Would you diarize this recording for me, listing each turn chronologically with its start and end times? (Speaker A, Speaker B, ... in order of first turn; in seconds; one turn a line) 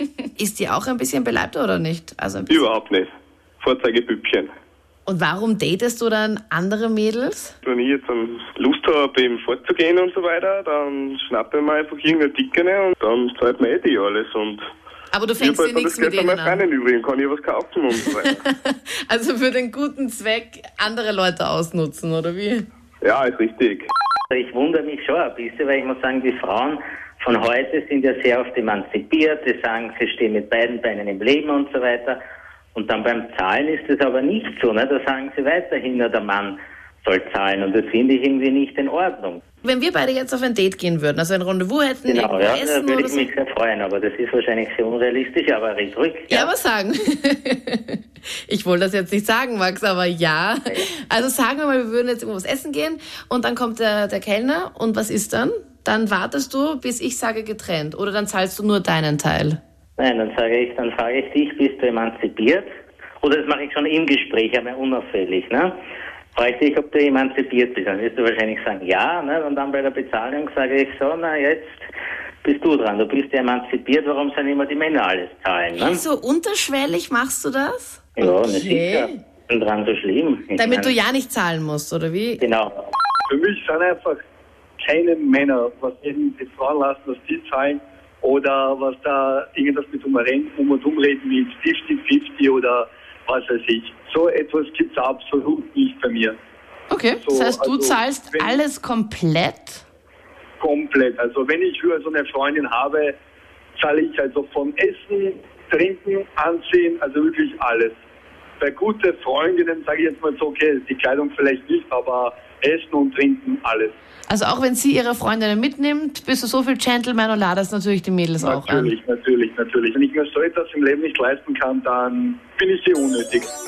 Speaker A: 0.4-2.6
Speaker B: 2.5-3.1
Speaker B: 3.6-4.5
Speaker A: 5.1-7.5
Speaker B: 7.6-14.6
Speaker A: 15.1-16.6
Speaker B: 15.4-18.4
Speaker A: 17.9-22.7
Speaker B: 23.0-23.9
Speaker C: 24.3-32.2
Speaker C: 32.8-39.4
Speaker A: 39.6-43.3
Speaker C: 42.1-46.5
Speaker A: 46.3-59.6
Speaker C: 60.0-62.7
Speaker C: 63.2-65.8
Speaker C: 66.3-71.8
Speaker C: 72.4-76.0
Speaker A: 75.8-79.2
Speaker C: 78.2-81.0
Speaker A: 80.6-82.4
Speaker C: 82.4-82.8
Speaker D: 83.3-84.2
Speaker D: 84.8-96.4
Speaker A: 96.9-99.8
Speaker D: 97.2-98.6
Speaker D: 100.6-103.2
Speaker D: 103.8-107.9
Speaker D: 108.6-114.0
Speaker A: 114.3-118.9
Speaker D: 118.4-123.5